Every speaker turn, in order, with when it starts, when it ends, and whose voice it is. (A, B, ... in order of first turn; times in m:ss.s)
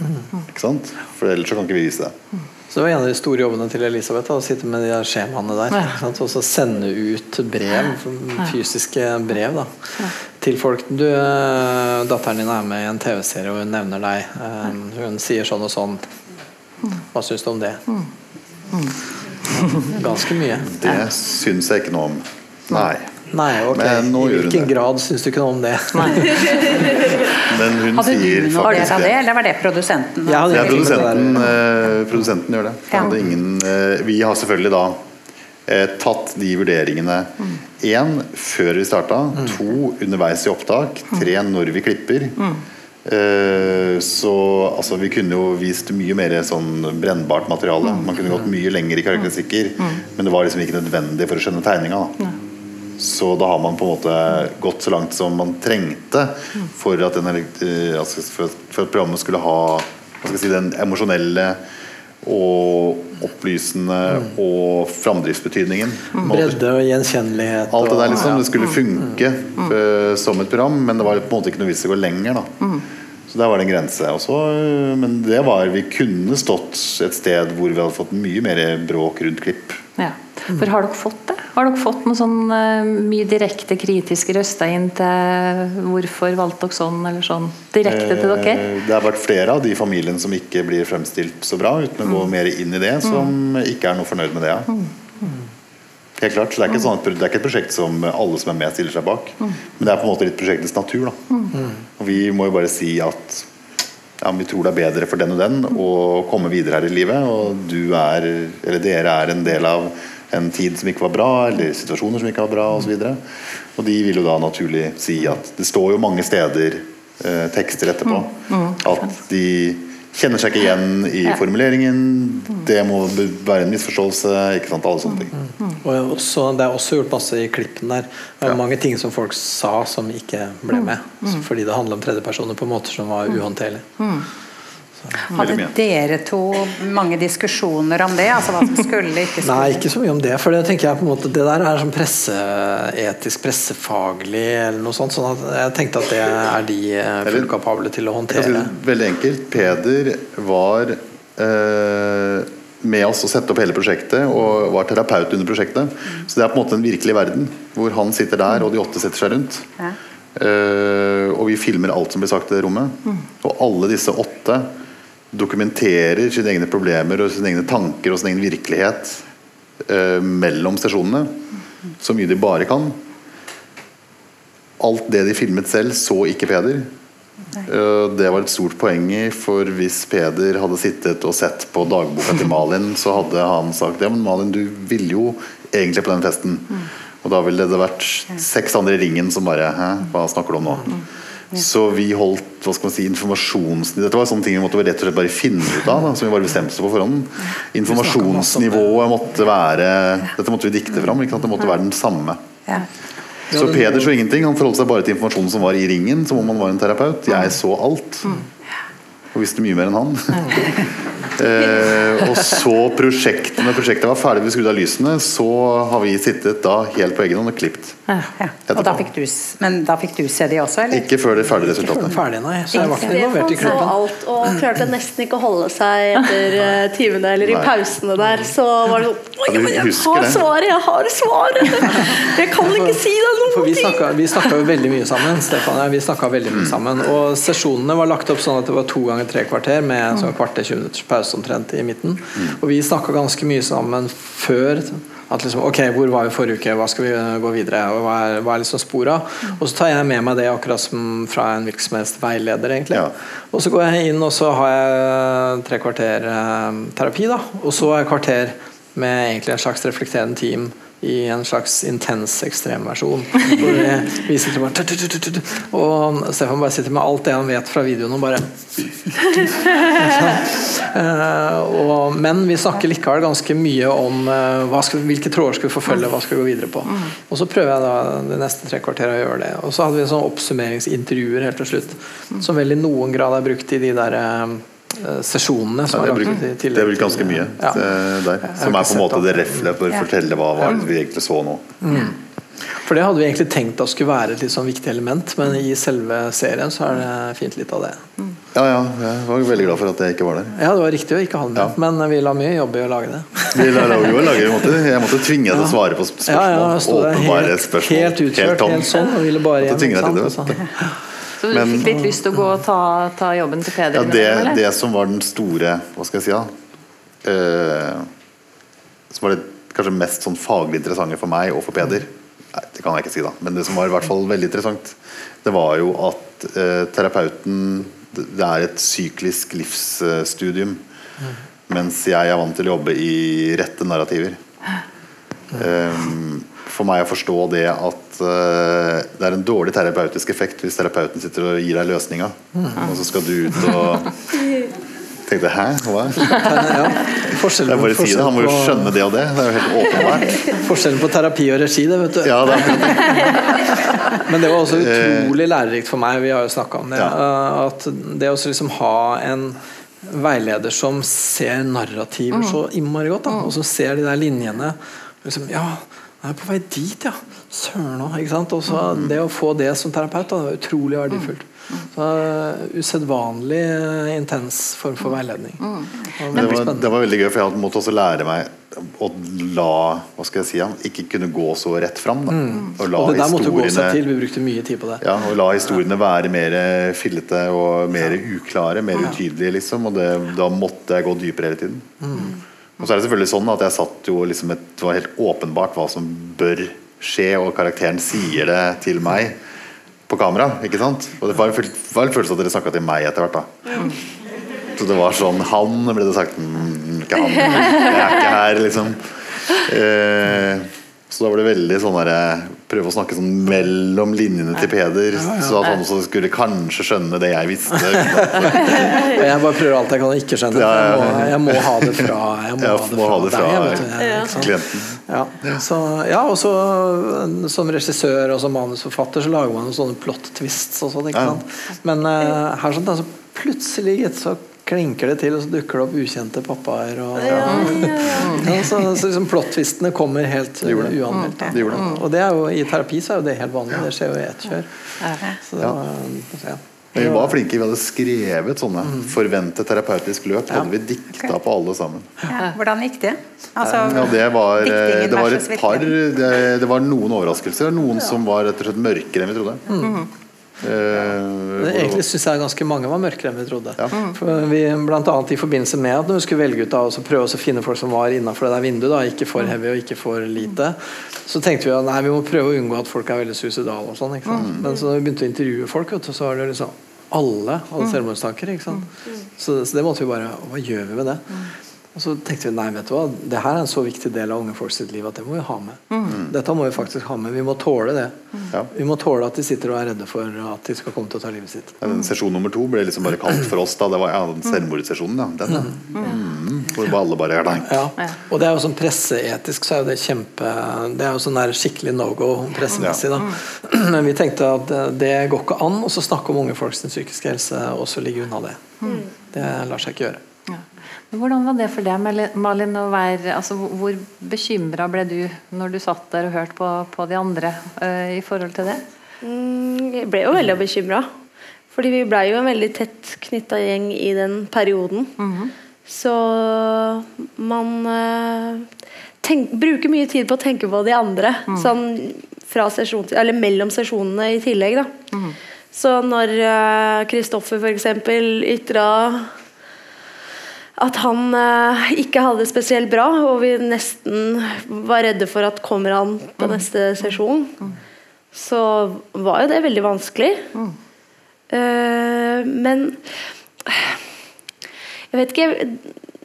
0:00.5-0:02.2 A
0:02.7-0:16.0 B
0:17.1-0:17.8 B
0:19.6-0:19.9 C
0:19.8-0:20.8 B
0:20.8-0:23.1 A
0:23.3-0:26.6 B
0:23.7-0:24.7 A
0:26.0-0:26.3 C
0:27.4-0:29.2 A
0:27.9-0:30.9 D
0:30.3-0:31.5 B
0:30.5-0:35.0 A
0:35.7-0:42.4 A
0:43.0-0:52.1 A
0:53.0-1:01.6 A
1:02.2-1:06.6 A
1:06.2-1:08.4 B
1:07.7-1:12.5 A
1:13.3-1:19.8 A
1:20.0-1:28.6 C
1:27.8-1:34.7 A
1:36.2-1:41.2 A
1:42.0-1:43.5 A
1:44.2-1:53.2 A
1:53.7-2:05.3 A
1:58.5-1:58.8 C
2:05.4-2:13.9 B
2:14.0-2:14.3 C
2:15.3-2:19.9 D
2:15.3-2:15.7 A
2:19.4-2:28.7 B
2:27.2-2:27.5 A
2:28.3-2:39.7 A
2:40.4-2:44.7 A
2:45.3-2:49.2 A
2:49.8-2:51.4 A
2:52.0-2:53.0 A
2:54.8-2:56.9 A
2:57.6-3:10.9 A
3:11.5-3:22.4 A
3:17.9-3:18.9 B
3:23.5-3:24.1 B
3:23.5-3:28.3 A
3:29.3-3:38.0 A
3:38.4-3:41.1 D
3:38.7-3:39.0 A
3:40.9-3:42.2 A
3:41.6-3:44.0 B
3:42.7-3:43.1 D
3:42.8-3:54.1 E
3:47.4-3:47.7 A
3:49.4-3:50.5 A
3:52.6-4:47.8 B
3:56.5-3:56.8 A
4:45.9-4:51.7 A
4:48.5-4:49.7 B
4:51.8-4:52.1 B
4:52.7-4:58.0 B
4:58.5-5:00.5 A
5:00.5-5:04.1 B
5:03.5-5:09.0 A
5:05.5-5:11.0 B
5:09.6-5:10.6 A
5:11.4-5:14.6 C
5:11.5-5:12.0 A
5:13.9-5:16.5 A
5:17.2-5:18.1 A
5:19.1-5:30.8 A
5:31.7-5:34.4 A
5:35.5-5:44.1 A
5:42.6-5:42.8 B
5:45.2-5:46.9 A
5:46.2-5:49.0 B
5:47.6-5:50.4 A
5:50.5-5:53.6 B
5:52.2-5:53.1 A
5:54.1-6:16.9 B
5:54.7-5:55.3 A
6:16.3-6:24.0 A
6:22.3-6:25.0 B
6:25.0-6:32.0 A
6:32.0-6:32.3 B
6:32.8-6:39.4 A
6:40.1-6:43.7 A
6:44.8-6:58.9 A
6:55.2-6:55.6 B
6:58.0-7:04.5 B
7:00.5-7:05.6 A
7:04.0-7:04.4 E
7:05.1-7:24.9 B
7:11.1-7:11.4 A
7:17.2-7:18.4 E
7:17.3-7:17.6 A
7:18.2-7:18.5 C
7:20.6-7:21.9 A
7:21.2-7:22.0 C
7:25.4-7:27.3 B
7:26.9-7:32.1 A
7:28.8-7:29.1 B
7:32.3-7:35.9 D
7:33.8-7:39.6 A
7:39.7-7:40.0 B
7:39.8-7:40.1 C
7:40.6-7:42.0 A
7:41.6-7:58.8 B
7:54.3-7:54.7 C
7:54.3-7:54.6 A
7:59.4-8:01.2 B
8:01.9-8:08.1 B
8:06.0-8:06.4 A
8:08.7-8:11.8 B
8:11.8-8:17.8 A
8:17.7-8:28.6 B
8:22.7-8:23.4 C
8:22.8-8:23.0 A
8:28.8-8:29.1 E
8:29.3-8:30.2 B
8:30.5-8:38.8 C
8:39.2-8:41.1 E
8:41.7-8:45.1 E
8:45.2-8:45.5 C
8:45.9-8:48.7 E
8:49.2-8:54.9 E
8:55.7-8:59.3 E
9:00.8-9:07.6 E
9:08.3-9:10.5 E
9:11.5-9:13.0 E
9:13.6-9:14.0 E
9:15.1-9:15.8 E